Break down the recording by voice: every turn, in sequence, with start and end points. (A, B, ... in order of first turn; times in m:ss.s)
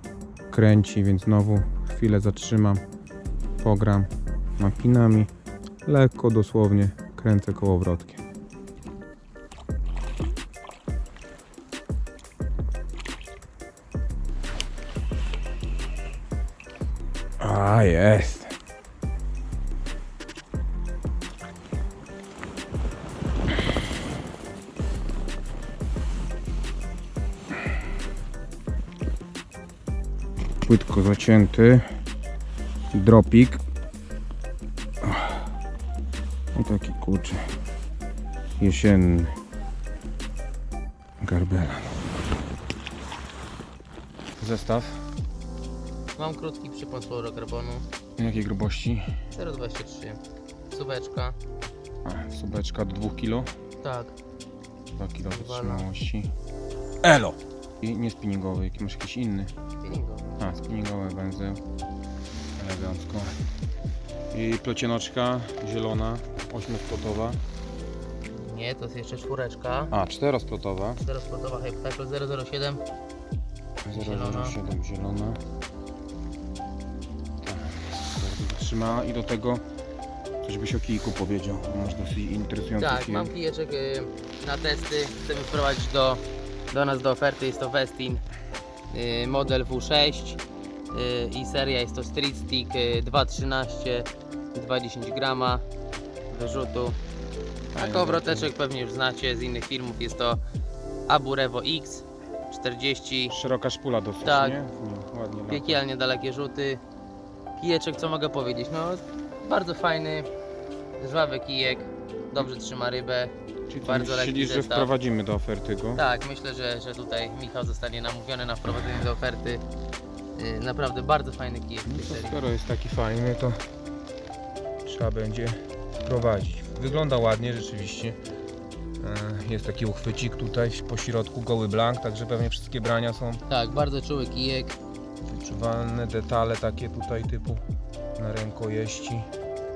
0:00.5-0:02.8 A
0:03.6-0:05.3 A
0:05.8-0:08.2 A
0:17.4-0:18.6 A
0:30.6-0:31.9 A
0:32.9-0:33.6 A
0:35.0-0:35.5 A
0:36.5-0:37.5 A
0:38.6-0:39.4 A
0:41.2-0:42.0 A
0:44.4-0:45.1 A
0:46.2-0:47.9 B
0:48.2-0:49.1 A
0:49.3-0:51.4 B
0:52.0-0:53.5 A
0:53.8-0:54.1 B
0:54.9-0:56.3 A
0:55.3-0:55.9 B
0:57.0-0:59.5 A
0:59.8-1:00.4 B
1:00.4-1:01.6 A
1:02.6-1:03.3 A
1:04.3-1:07.4 A
1:08.4-1:09.9 B
1:09.9-1:11.0 A
1:11.0-1:12.8 B
1:13.8-1:15.4 A
1:13.9-1:14.6 B
1:17.4-1:19.6 A
1:20.4-1:23.3 A
1:22.8-1:28.2 B
1:28.9-1:35.6 B
1:36.3-1:37.0 B
1:37.7-1:38.5 A
1:37.8-1:40.4 B
1:41.1-1:43.4 B
1:43.3-1:45.8 A
1:44.2-1:44.6 B
1:45.5-1:46.8 B
1:47.6-1:50.3 B
1:51.0-1:55.0 B
1:53.7-1:56.0 A
1:56.0-1:59.6 B
2:00.4-2:02.4 B
2:01.9-2:03.6 A
2:04.8-2:08.2 A
2:09.0-2:13.4 A
2:13.5-2:14.8 B
2:15.2-2:17.6 A
2:18.2-2:19.3 A